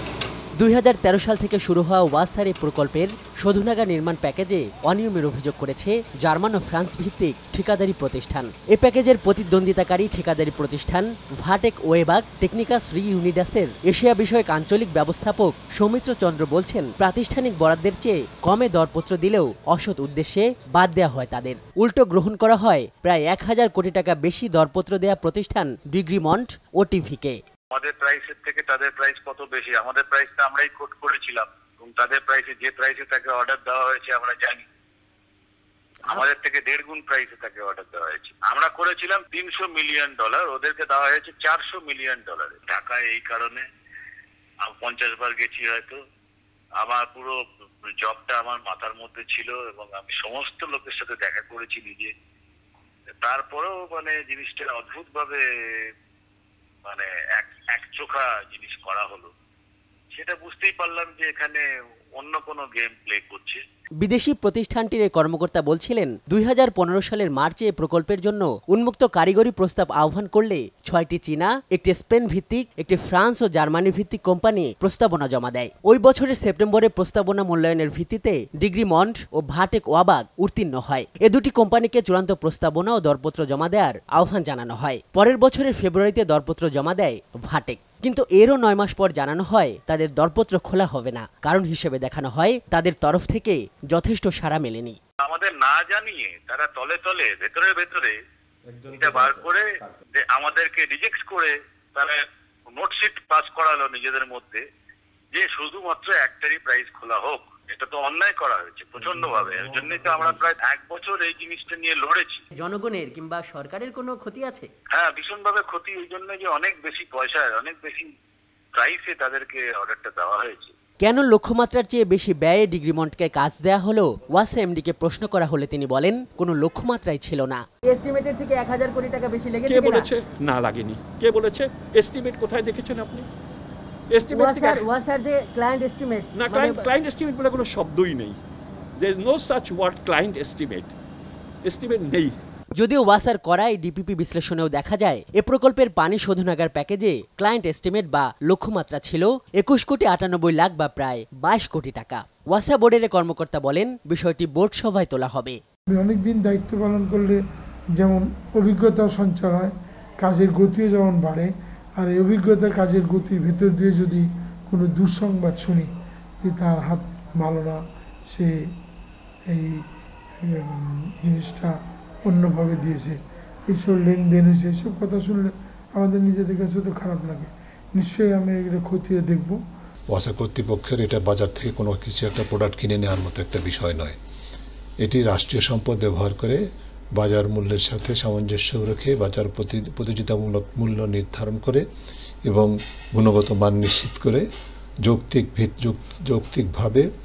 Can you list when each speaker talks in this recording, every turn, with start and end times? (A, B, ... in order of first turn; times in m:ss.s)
0:00.6-0:27.4 A
0:27.7-0:34.6 B
0:36.0-0:43.6 B
0:44.7-0:46.0 B
0:46.8-0:47.4 B
0:48.0-0:52.1 B
0:53.2-0:55.9 B
0:56.9-0:59.3 B
1:00.1-1:01.6 B
1:02.2-1:03.6 B
1:04.0-1:35.0 A
1:35.2-1:38.1 B
1:38.8-1:42.2 B
1:42.7-1:44.6 B
1:45.3-1:52.4 B
1:52.6-1:54.7 A
1:54.9-1:58.1 B
1:58.8-2:00.7 B
2:01.0-2:10.1 A
2:09.6-2:13.3 C
2:14.1-2:14.9 C
2:14.3-2:16.8 A
2:16.3-2:18.4 C
2:19.0-2:20.9 C
2:21.6-2:22.4 C
2:22.7-2:35.6 A
2:35.9-2:37.4 D
2:38.0-2:45.9 D
2:46.4-2:48.5 D
2:49.5-2:49.8 D
2:50.4-2:51.7 D
2:52.2-2:53.2 D
2:53.7-2:59.6 D
3:00.1-3:04.2 E
3:05.0-3:06.6 E
3:07.2-3:11.8 E
3:12.4-3:14.4 E
3:15.0-3:17.1 E